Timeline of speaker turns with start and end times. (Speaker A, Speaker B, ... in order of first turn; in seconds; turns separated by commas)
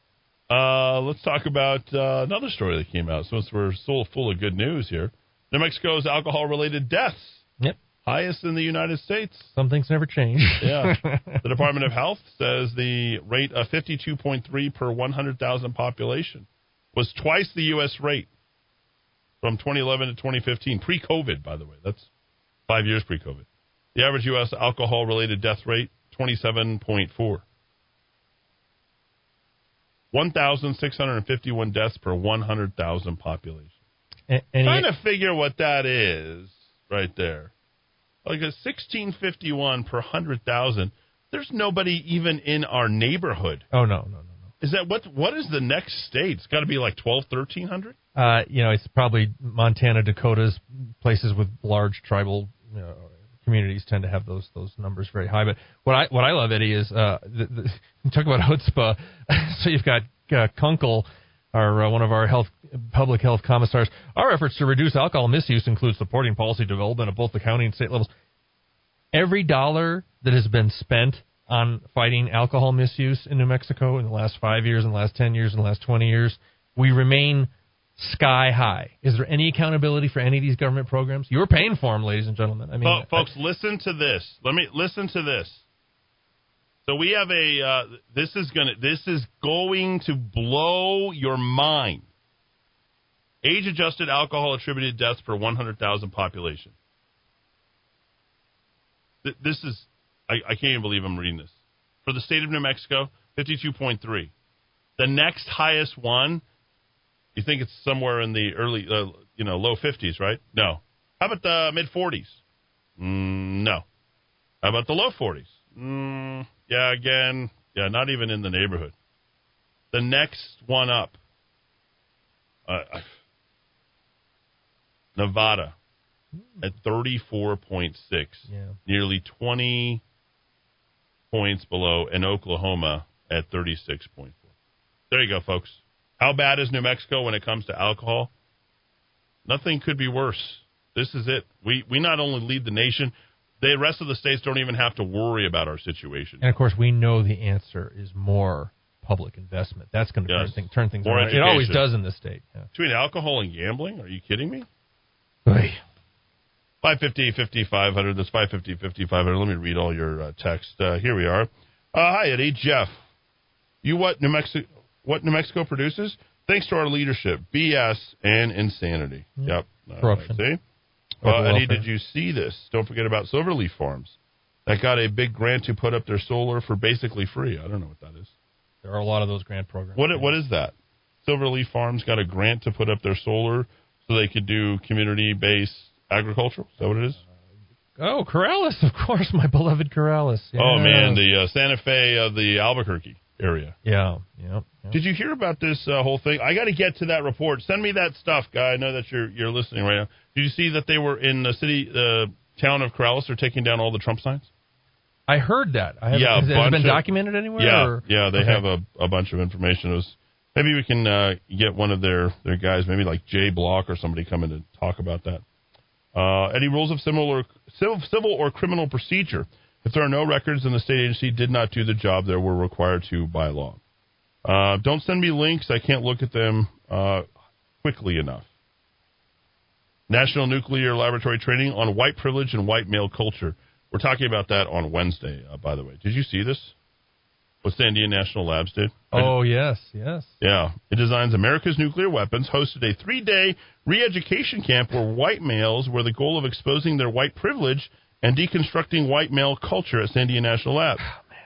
Speaker A: 0.5-7.5, Speaker A: 8.1-9.5, Speaker B: 9.6-11.4, Speaker A: 10.6-18.3, Speaker A: 19.4-22.1, Speaker A: 22.7-27.4, Speaker A: 30.1-33.7, Speaker B: 34.3-34.9, Speaker A: 34.6-37.5, Speaker A: 38.2-43.6, Speaker B: 43.7-44.5, Speaker A: 44.6-48.0, Speaker B: 48.2-68.1, Speaker B: 69.1-83.3, Speaker A: 82.8-85.7, Speaker A: 86.8-92.1, Speaker A: 93.4-96.8, Speaker A: 99.2-104.3, Speaker A: 105.0-106.4, Speaker A: 107.3-112.4, Speaker A: 113.0-113.8, Speaker A: 114.6-119.0, Speaker A: 119.9-121.2, Speaker A: 122.7-123.2, Speaker A: 125.2-125.8, Speaker B: 126.4-126.6, Speaker A: 126.6-130.0, Speaker B: 128.5-128.8, Speaker A: 131.3-134.4, Speaker A: 135.1-138.3, Speaker A: 139.5-146.4, Speaker B: 146.4-152.7, Speaker A: 150.3-151.9, Speaker A: 152.7-154.7, Speaker B: 155.5-155.8, Speaker A: 156.8-162.9, Speaker A: 163.8-170.6, Speaker B: 169.4-170.4, Speaker A: 171.2-178.3, Speaker B: 171.2-171.8, Speaker B: 178.8-180.3, Speaker A: 180.0-187.2, Speaker B: 188.0-191.2, Speaker A: 190.6-193.8, Speaker B: 193.8-195.0, Speaker A: 194.9-204.5, Speaker B: 205.3-208.6, Speaker A: 206.1-207.1, Speaker A: 207.6-215.4, Speaker A: 216.1-223.8, Speaker A: 224.4-227.3, Speaker A: 227.8-228.5, Speaker A: 230.1-236.8, Speaker A: 237.6-239.3, Speaker B: 239.1-240.4, Speaker A: 240.4-251.0, Speaker B: 251.0-251.3